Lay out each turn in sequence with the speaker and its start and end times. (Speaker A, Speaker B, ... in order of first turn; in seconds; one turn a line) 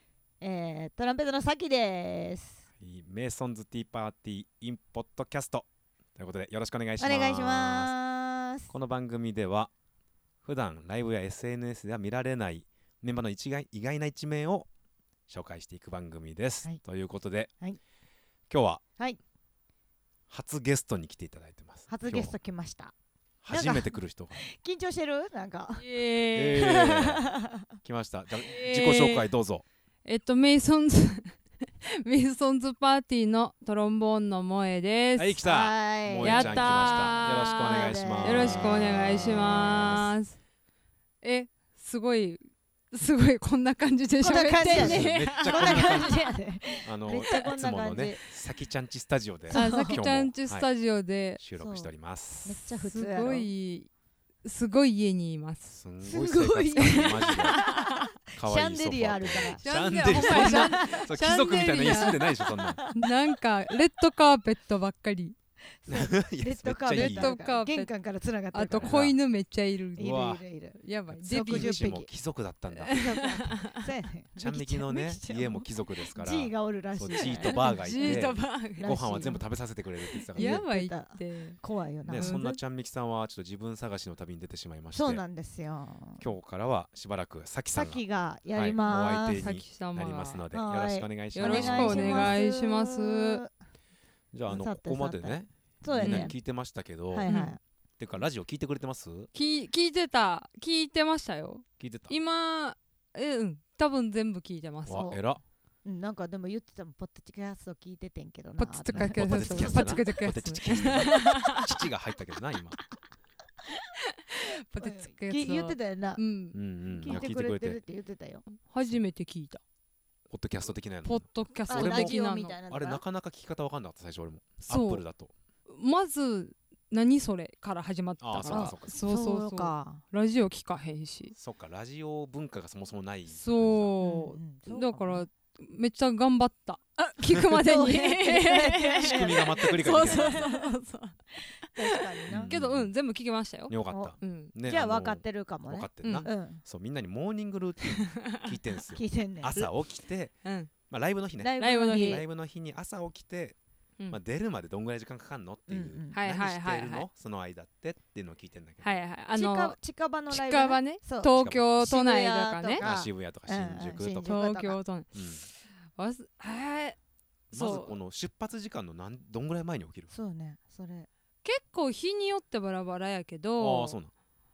Speaker A: 0.4-2.6
Speaker B: 2.8-5.7
Speaker B: 6.2-7.9
Speaker A: 7.0-8.7
Speaker B: 8.7-9.7
Speaker B: 10.4-14.7
Speaker B: 15.3-17.5
Speaker B: 18.5-18.8
Speaker B: 20.3-22.3
Speaker A: 21.9-22.9
Speaker B: 23.4-24.4
Speaker A: 23.5-25.9
Speaker C: 25.7-27.2
Speaker B: 26.3-27.2
Speaker A: 26.6-27.7
Speaker B: 27.8-29.6
Speaker C: 28.4-29.2
Speaker C: 30.0-35.4
Speaker B: 35.2-40.1
Speaker A: 35.4-40.0
Speaker C: 36.2-40.4
Speaker C: 41.2-46.1
Speaker A: 44.2-48.3
Speaker B: 44.6-46.3
Speaker B: 46.8-50.7
Speaker A: 49.5-50.0
Speaker C: 49.5-51.4
Speaker B: 51.4-52.6
Speaker A: 51.6-51.9
Speaker A: 52.4-53.5
Speaker C: 52.7-53.9
Speaker C: 54.4-55.8
Speaker B: 55.8-57.6
Speaker A: 56.0-61.1
Speaker C: 56.7-58.1
Speaker B: 58.3-62.8
Speaker C: 59.6-62.3
Speaker A: 61.7-63.1
Speaker C: 62.9-65.3
Speaker A: 65.8-69.0
Speaker B: 65.9-67.3
Speaker C: 66.9-67.9
Speaker C: 68.5-70.1
Speaker B: 68.8-69.2
Speaker A: 70.0-72.1
Speaker B: 70.0-70.4
Speaker C: 70.8-71.9
Speaker B: 71.1-73.0
Speaker C: 72.8-73.8
Speaker A: 72.9-79.4
Speaker B: 74.4-80.6
Speaker C: 77.1-79.0
Speaker C: 80.3-81.6
Speaker A: 80.3-82.4
Speaker B: 82.1-85.2
Speaker C: 82.1-82.6
Speaker A: 84.9-86.2
Speaker B: 86.2-88.0
Speaker A: 87.7-89.4
Speaker B: 88.5-92.3
Speaker C: 89.3-90.4
Speaker A: 90.5-93.5
Speaker C: 91.3-93.4
Speaker B: 94.3-97.3
Speaker A: 94.5-96.3
Speaker C: 96.0-96.3
Speaker A: 97.1-97.6
Speaker C: 97.3-97.6
Speaker B: 98.0-99.3
Speaker C: 99.3-105.2
Speaker B: 101.8-102.1
Speaker B: 104.8-105.4
Speaker A: 105.8-110.1
Speaker C: 108.6-111.8
Speaker B: 108.9-112.8
Speaker C: 113.8-116.6
Speaker A: 114.8-116.2
Speaker B: 116.5-117.8
Speaker A: 116.9-118.4
Speaker C: 118.6-119.6
Speaker B: 120.3-125.3
Speaker C: 121.0-122.6
Speaker A: 121.7-123.0
Speaker C: 124.6-125.0
Speaker C: 125.7-131.3
Speaker B: 128.2-129.0
Speaker A: 128.4-130.0
Speaker B: 131.3-133.9
Speaker C: 133.3-144.5
Speaker A: 134.0-135.2
Speaker A: 137.5-140.7
Speaker B: 139.0-140.5
Speaker A: 141.7-142.6
Speaker B: 142.3-142.9
Speaker B: 143.7-150.4
Speaker A: 143.8-146.6
Speaker C: 146.0-146.3
Speaker C: 147.9-148.5
Speaker A: 148.9-149.7
Speaker C: 150.4-150.7
Speaker B: 150.9-153.6
Speaker A: 151.4-152.2
Speaker C: 151.6-152.2
Speaker B: 154.1-159.0
Speaker A: 155.7-156.2
Speaker C: 156.1-157.1
Speaker C: 158.8-159.8
Speaker A: 159.3-164.8
Speaker C: 160.3-162.8
Speaker B: 161.3-161.7
Speaker B: 162.8-164.3
Speaker C: 164.2-167.0
Speaker B: 165.1-165.4
Speaker C: 167.5-167.9
Speaker B: 167.5-170.1
Speaker A: 170.1-171.1
Speaker C: 171.4-174.0
Speaker B: 173.6-174.1